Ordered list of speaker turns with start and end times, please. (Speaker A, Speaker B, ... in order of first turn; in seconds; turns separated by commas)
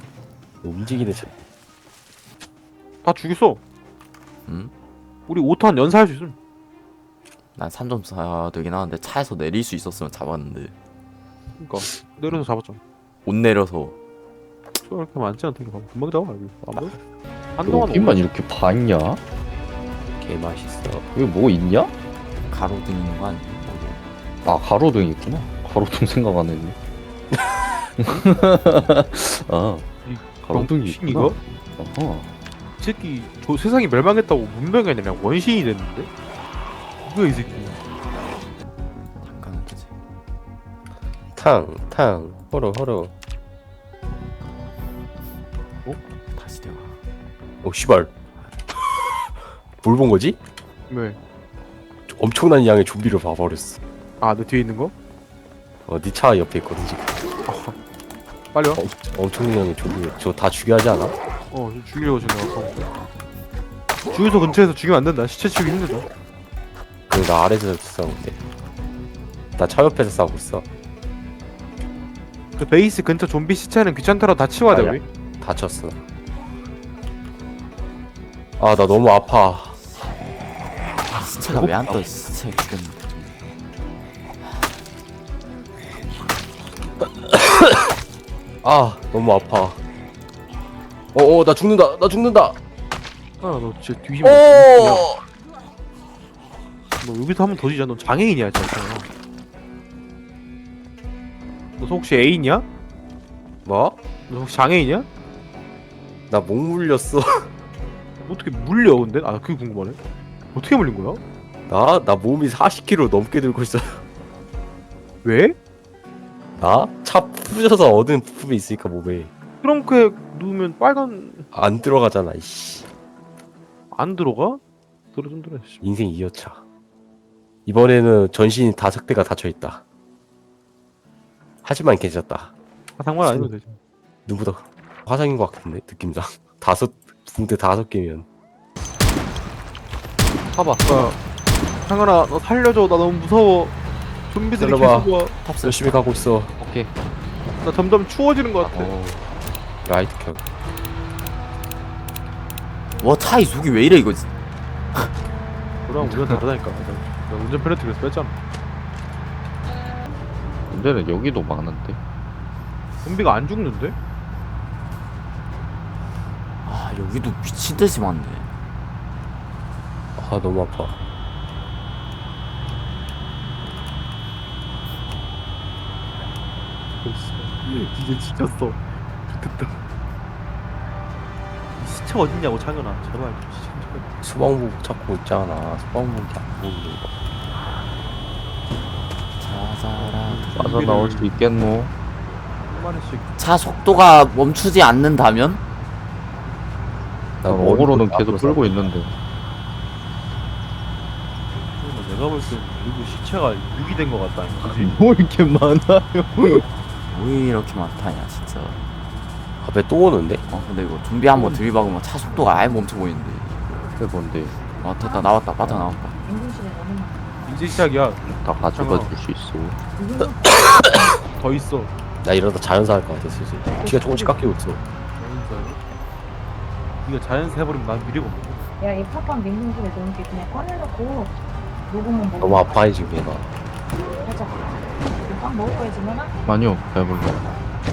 Speaker A: 0.6-1.3, Speaker B: 3.0-3.6, Speaker C: 4.5-4.7, Speaker B: 5.3-6.4, Speaker C: 7.6-10.7, Speaker B: 11.6-12.8, Speaker C: 13.2-13.9, Speaker B: 14.8-16.9, Speaker B: 17.6-18.2, Speaker D: 17.6-19.2, Speaker A: 20.2-21.1, Speaker D: 21.1-21.9, Speaker C: 22.5-24.0, Speaker D: 24.4-26.8, Speaker D: 28.0-29.9, Speaker B: 30.1-31.4, Speaker D: 30.4-32.3, Speaker B: 32.8-36.1, Speaker B: 37.0-37.8, Speaker C: 39.2-39.9, Speaker A: 41.3-43.1, Speaker C: 46.3-47.0, Speaker A: 47.6-48.1, Speaker A: 49.8-50.4, Speaker B: 50.9-51.2, Speaker A: 52.1-53.8, Speaker B: 54.2-54.9, Speaker A: 55.8-57.1, Speaker B: 57.5-57.8, Speaker B: 58.5-58.8, Speaker A: 58.7-61.1, Speaker B: 61.5-62.8, Speaker B: 64.1-66.1, Speaker A: 67.1-68.4, Speaker A: 69.6-70.7, Speaker B: 72.6-75.0, Speaker A: 74.7-76.0, Speaker A: 78.6-79.8, Speaker C: 81.2-83.0, Speaker A: 87.3-87.7, Speaker A: 88.6-89.8, Speaker A: 91.1-92.6, Speaker B: 93.4-95.1, Speaker A: 94.2-95.1, Speaker B: 97.0-99.1, Speaker B: 101.8-102.7, Speaker A: 103.7-104.0, Speaker B: 104.3-105.1, Speaker A: 106.3-107.5, Speaker B: 108.2-110.0, Speaker B: 110.5-111.2, Speaker A: 111.7-114.0, Speaker B: 115.2-115.6, Speaker A: 116.6-119.3, Speaker B: 119.6-121.5, Speaker A: 121.5-122.8, Speaker B: 123.9-124.6, Speaker B: 125.1-125.8, Speaker A: 125.8-126.6, Speaker A: 127.7-129.8, Speaker A: 131.6-132.5, Speaker B: 133.0-133.8, Speaker A: 134.3-138.3, Speaker D: 140.6-141.1, Speaker B: 140.8-141.2, Speaker B: 141.8-143.7, Speaker B: 144.3-145.3, Speaker A: 144.6-146.5, Speaker D: 146.6-146.9, Speaker B: 147.6-148.9, Speaker A: 149.8-150.4, Speaker C: 153.0-154.3, Speaker B: 155.9-158.3, Speaker D: 156.0-156.3, Speaker D: 160.7-162.0, Speaker B: 163.0-163.9, Speaker C: 166.6-168.5, Speaker A: 170.2-170.9, Speaker B: 177.0-179.8, Speaker B: 181.8-184.1, Speaker A: 184.2-187.1, Speaker C: 189.4-190.7, Speaker B: 190.0-191.3, Speaker D: 190.5-191.9, Speaker B: 192.7-193.3, Speaker C: 193.4-195.6, Speaker A: 197.4-198.9, Speaker D: 197.4-199.2, Speaker B: 201.8-205.0, Speaker D: 204.6-206.6, Speaker C: 207.1-208.8, Speaker A: 209.6-210.4, Speaker C: 210.5-213.8, Speaker D: 211.3-211.6, Speaker D: 213.9-214.6, Speaker C: 214.8-216.2, Speaker E: 215.0-215.4, Speaker D: 215.6-215.9, Speaker E: 216.2-217.5, Speaker B: 217.4-218.2, Speaker D: 218.2-219.8, Speaker B: 218.7-219.1, Speaker E: 219.9-221.2, Speaker B: 221.3-221.9, Speaker A: 222.2-224.8, Speaker E: 223.8-224.5, Speaker B: 225.2-225.8, Speaker B: 227.1-228.6, Speaker E: 228.8-231.3, Speaker E: 231.9-232.8, Speaker A: 232.4-233.5, Speaker E: 234.2-236.3, Speaker D: 236.4-237.5